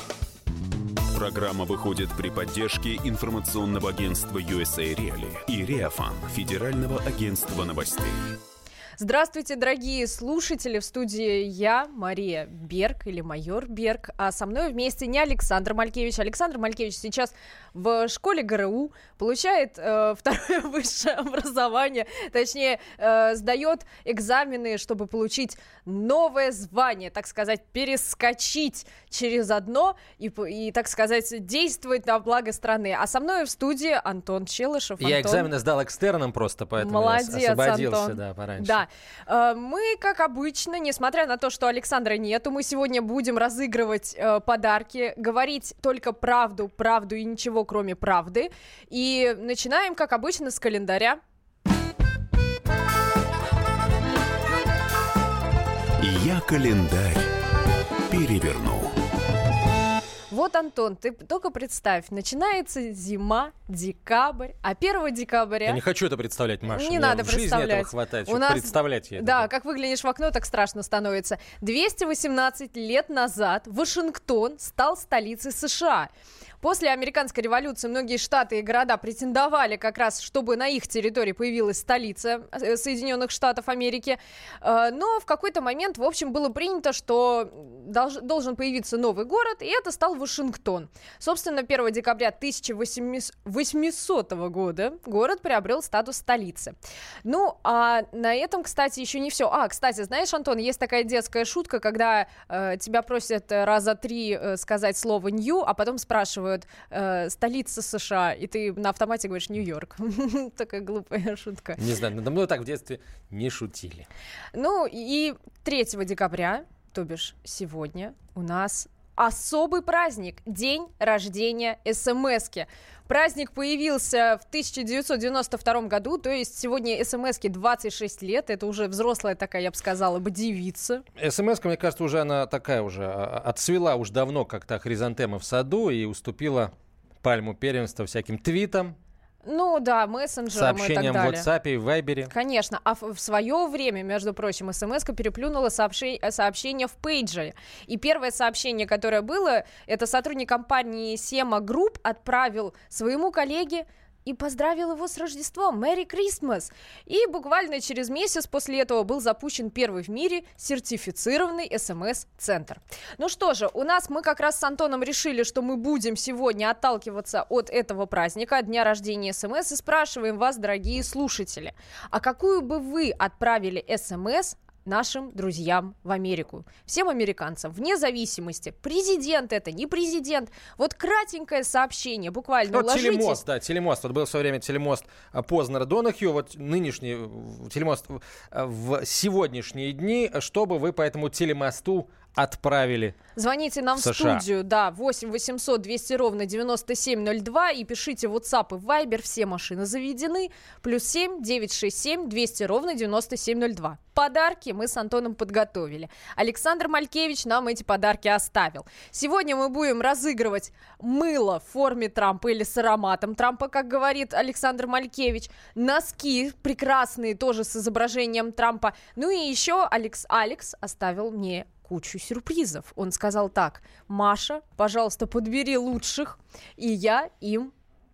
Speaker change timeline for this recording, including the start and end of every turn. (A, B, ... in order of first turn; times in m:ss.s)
0:01.1-0:08.3 A
0:09.0-0:35.5 B
0:35.0-0:38.8 C
0:36.8-0:51.2 B
0:56.0-0:57.3 A
0:58.1-0:59.0 A
1:00.3-1:05.8 B
1:05.6-1:09.5 C
1:06.7-1:16.1 B
1:16.6-1:51.8 B
1:51.8-1:54.1 C
1:54.5-2:11.0 B
2:11.2-2:19.0 C
2:19.4-2:21.5 B
2:20.5-2:22.3 C
2:22.3-3:03.4 B
3:02.7-3:13.2 C
3:13.4-3:47.7 B
3:14.0-3:14.4 C